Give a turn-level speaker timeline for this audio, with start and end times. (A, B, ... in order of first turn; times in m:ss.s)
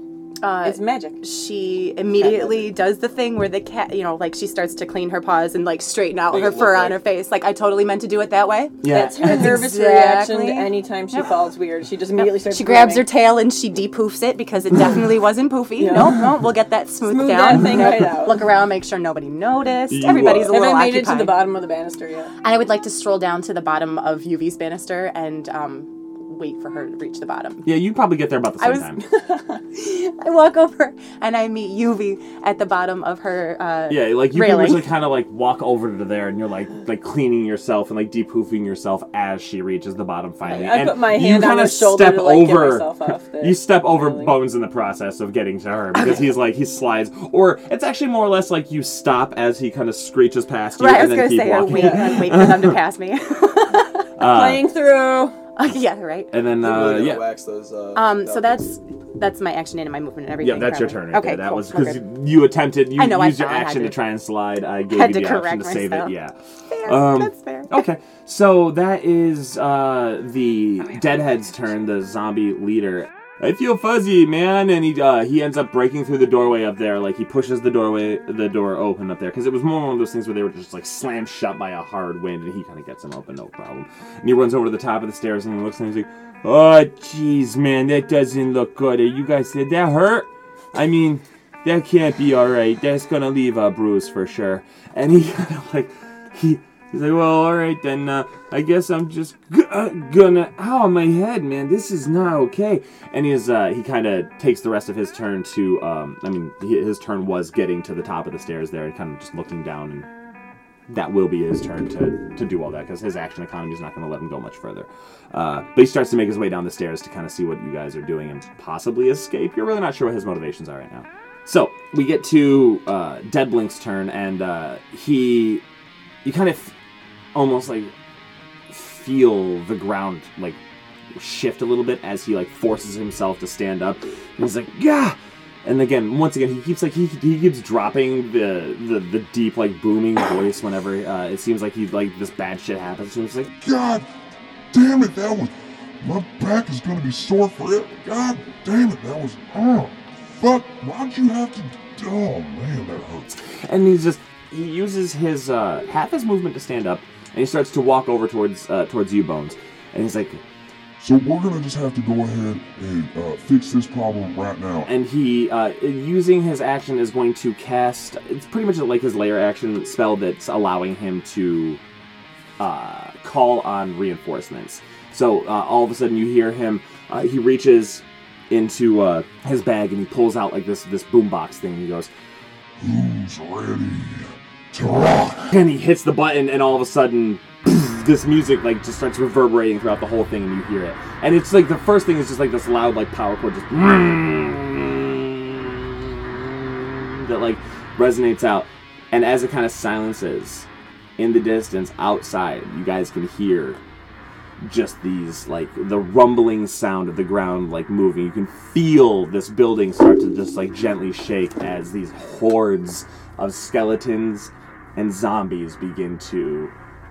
0:00.4-0:11.4 A
0:00.6-0:01.2 B
0:02.2-0:02.6 B
0:06.3-0:07.0 C
0:08.8-0:09.6 D
0:08.9-0:13.1 B
0:12.2-0:21.4 A
0:15.8-0:16.3 B
0:17.0-0:18.4 B
0:17.5-0:18.0 D
0:19.9-0:20.5 D
0:20.5-0:22.3 B
0:22.4-0:27.7 A
0:27.6-0:29.0 D
0:28.6-0:34.9 A
0:33.9-0:52.8 D
0:40.4-0:44.4 B
0:45.9-0:46.2 A
0:50.8-0:54.1 A
0:51.6-0:52.4 B
0:54.2-0:54.7 D
0:54.2-0:55.4 B
0:55.6-0:56.3 A
0:56.3-0:57.2 D
0:56.6-0:58.6 C
0:57.9-1:02.0 A
1:00.4-1:50.1 D
1:03.0-1:04.0 A
1:04.9-1:06.1 A
1:06.7-1:07.8 A
1:50.9-2:05.6 D
2:06.2-2:06.7 D
2:07.3-2:07.9 D
2:08.7-2:10.6 D
2:11.1-2:23.5 D
2:23.6-2:24.1 E
2:24.7-2:33.4 E
2:33.4-2:40.4 D
2:41.0-2:44.9 E
2:44.8-2:51.8 D
2:52.6-3:02.1 D
3:02.8-3:05.6 E
3:05.5-3:23.8 D
3:24.6-3:36.7 D